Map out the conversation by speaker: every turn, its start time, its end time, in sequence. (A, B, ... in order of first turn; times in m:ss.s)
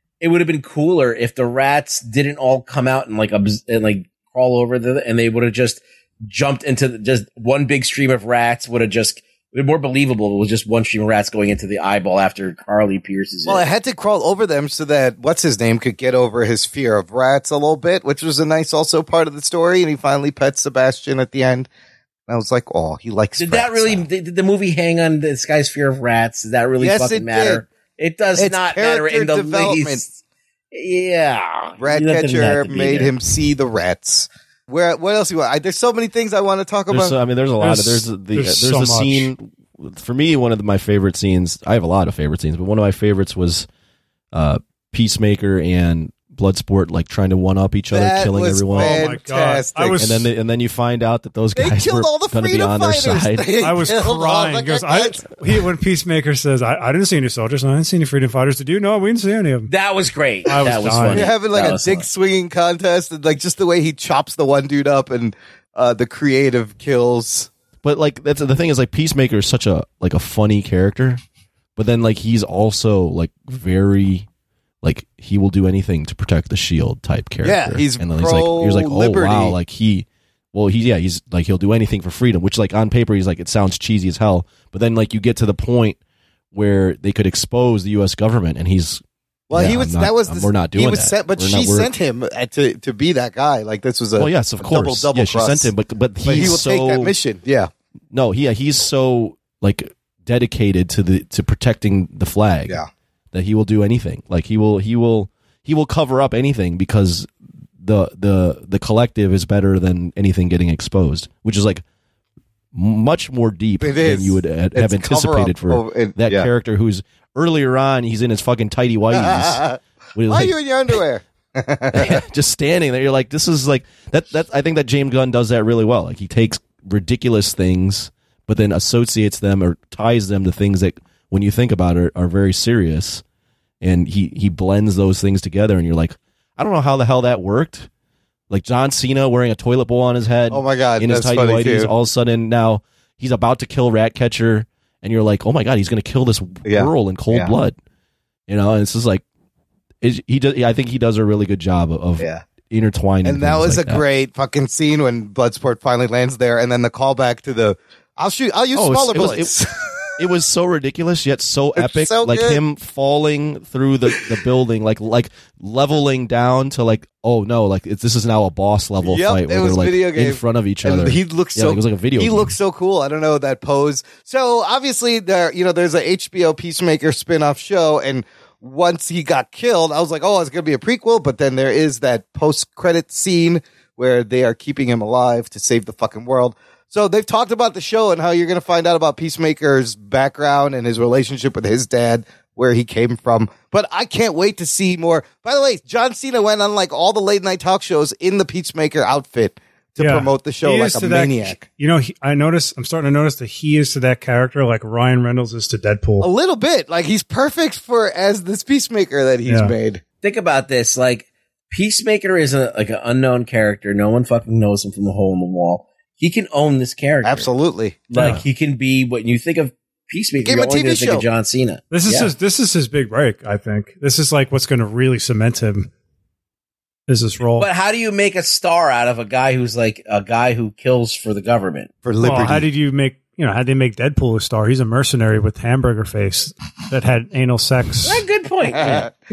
0:00.2-0:13.7 A
0:13.4-0:21.7 B
0:22.3-0:24.0 B
0:23.4-0:30.1 A
0:26.8-0:27.6 B
0:28.4-0:30.0 B
0:30.7-0:33.1 A
0:31.8-0:37.2 B
0:36.9-0:43.7 C
0:37.6-0:39.3 D
0:44.3-0:49.1 C
0:47.9-0:50.0 B
0:48.8-0:50.2 D
0:50.0-0:53.5 C
0:51.6-0:55.2 B
0:53.6-0:59.7 D
0:59.7-1:02.0 A
1:00.5-1:01.2 D
1:01.1-1:07.5 B
1:07.8-1:11.2 C
1:11.8-1:14.3 C
1:14.8-1:26.0 C
1:17.4-1:19.6 B
1:26.5-1:31.9 C
1:29.5-1:35.7 B
1:34.2-1:37.1 C
1:36.2-1:37.7 B
1:38.1-1:42.8 C
1:43.3-1:51.8 C
1:52.7-2:00.5 C
1:53.8-1:56.5 B
1:59.1-2:02.2 B
2:01.9-2:13.2 C
2:13.8-2:17.9 C
2:18.5-2:27.8 C
2:20.5-2:21.9 B
2:26.6-2:27.5 B
2:28.5-2:29.2 C
2:30.0-2:34.0 C
2:32.2-2:32.4 B
2:33.2-2:40.1 B
2:38.7-2:39.6 C
2:40.2-2:52.5 C
2:41.8-2:42.6 B
2:49.0-3:21.6 B
3:20.0-3:26.3 D
3:26.2-3:30.0 B
3:29.4-3:29.7 D
3:30.2-3:37.5 A
3:37.2-3:38.1 B
3:38.1-3:42.3 A
3:38.1-3:38.4 D
3:40.4-3:41.2 B
3:41.9-3:45.9 D
3:47.1-3:47.7 D
3:47.6-3:51.9 A
3:52.0-3:52.7 B
3:52.2-3:58.2 D
3:58.0-3:59.1 A
3:58.8-3:59.1 B